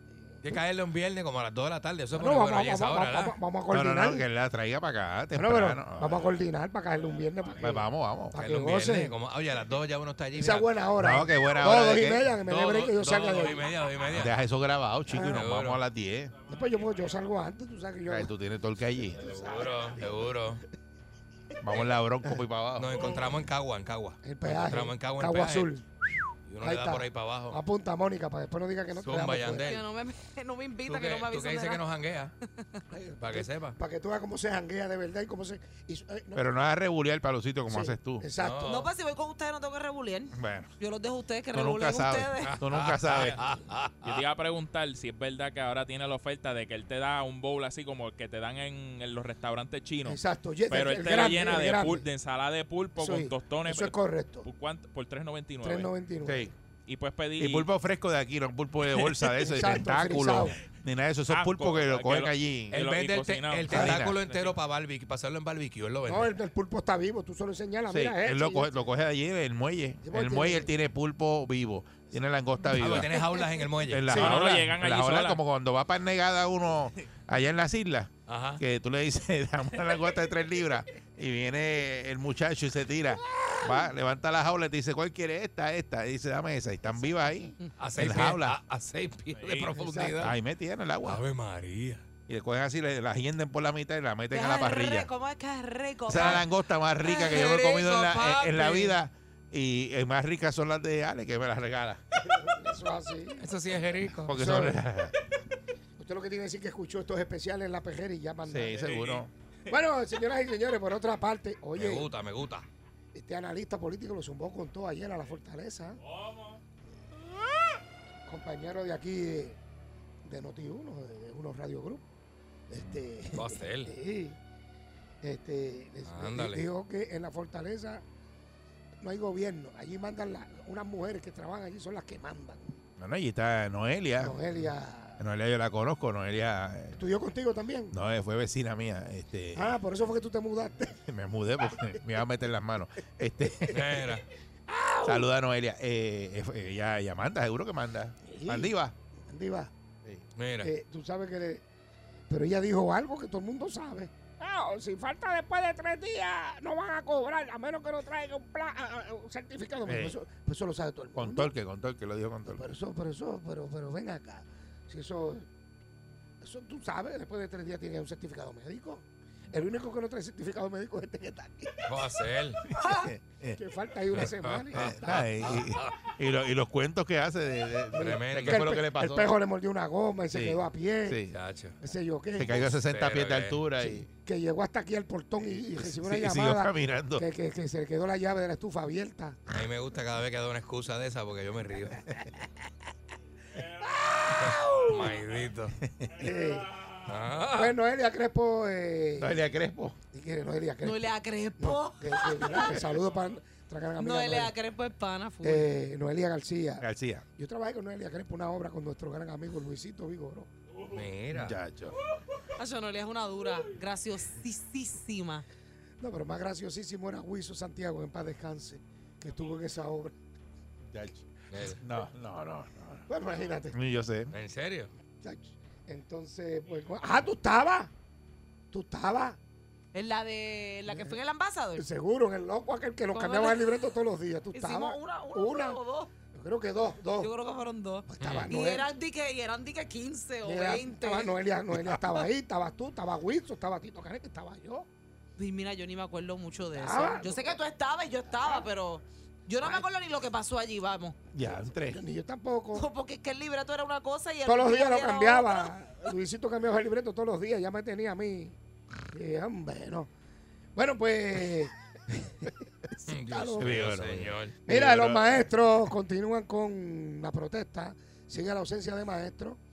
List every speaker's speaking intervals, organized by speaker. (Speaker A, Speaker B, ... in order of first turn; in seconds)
Speaker A: 0.4-3.4, 8.3-10.7, 12.4-14.3, 15.2-15.8, 19.2-20.6, 22.8-25.7, 26.5-27.6, 28.9-29.8, 30.9-32.3, 33.2-33.8, 38.4-38.9, 42.4-44.2, 59.0-59.3, 62.7-66.3, 72.7-74.2, 78.3-78.6, 87.8-90.3, 91.0-92.0, 97.1-98.9, 103.4-104.3, 111.8-112.7, 123.3-123.9, 126.0-126.6, 143.7-144.2, 150.3-150.7, 171.8-172.6, 174.1-175.9, 177.9-178.9, 181.3-181.8, 182.6-183.6, 189.5-192.0, 194.3-195.8, 197.1-197.7, 210.9-211.6, 221.5-221.8, 224.3-224.9, 238.2-238.5, 263.0-264.6
Speaker B: 2.1-4.2, 5.3-9.1, 10.3-13.7, 15.1-15.4, 16.5-18.3, 19.2-20.3, 24.2-29.8, 32.9-36.5, 37.7-38.9, 50.0-52.1, 53.0-54.5, 55.6-56.5, 59.4-60.6, 66.1-68.7, 70.0-70.7, 74.1-74.4, 83.3-83.9, 89.7-90.3, 102.2-103.5, 104.3-104.8, 106.0-109.0, 109.7-112.1, 113.1-116.0, 118.3-119.6, 120.2-122.0, 122.7-124.4, 125.2-128.0, 129.0-132.8, 134.2-135.2, 136.9-137.9, 139.5-141.0, 144.7-145.2, 148.3-148.7, 149.3-149.7, 150.6-151.6, 152.3-161.5, 162.4-165.5, 166.4-171.8, 172.8-175.2, 177.9-181.2, 181.8-182.7, 183.8-189.4, 194.1-195.0, 196.2-196.7, 197.5-199.4, 200.1-204.5, 205.4-206.8, 207.4-210.5, 216.0-220.1, 223.1-223.8, 225.2-227.9, 228.7-229.4, 230.9-231.1, 231.8-235.8, 236.3-237.3, 238.1-238.9, 240.4-244.8, 246.7-247.6, 248.4-248.7, 251.4-252.9, 254.4-258.6, 259.1-260.1, 260.7-262.5, 263.0-263.8, 264.6-269.6
Speaker C: 3.7-6.2, 7.6-8.3, 11.0-12.3, 14.1-16.3, 18.1-19.2, 21.6-23.1, 36.3-38.3, 40.3-40.7, 41.5-43.4, 56.2-56.5, 57.4-62.8, 63.7-64.2, 67.9-73.1, 73.9-88.6, 90.2-91.2, 92.3-95.1, 96.1-102.0, 104.2-105.1, 108.5-109.3, 133.0-134.4, 135.2-137.0, 137.9-139.8, 141.0-144.1, 145.0-148.9, 159.8-160.2, 161.2-162.7, 172.8-173.6, 174.1-179.3, 180.3-181.3, 182.3-184.1, 185.8-187.2, 199.2-200.0, 206.8-207.2, 211.3-211.9, 220.9-223.1, 223.7-224.3, 251.3-252.0, 263.6-265.5
Speaker D: 16.5-17.2, 44.0-55.9, 56.9-57.7, 61.3-64.6, 74.1-75.4, 89.4-89.7, 108.8-109.2, 116.1-116.6
Speaker E: 29.5-31.8, 38.6-42.5, 94.3-96.5, 97.0-97.6, 200.8-202.8, 204.0-205.7, 212.6-215.4, 229.9-231.8, 233.1-233.8, 234.5-236.1, 237.2-241.3, 245.4-251.2, 252.7-255.7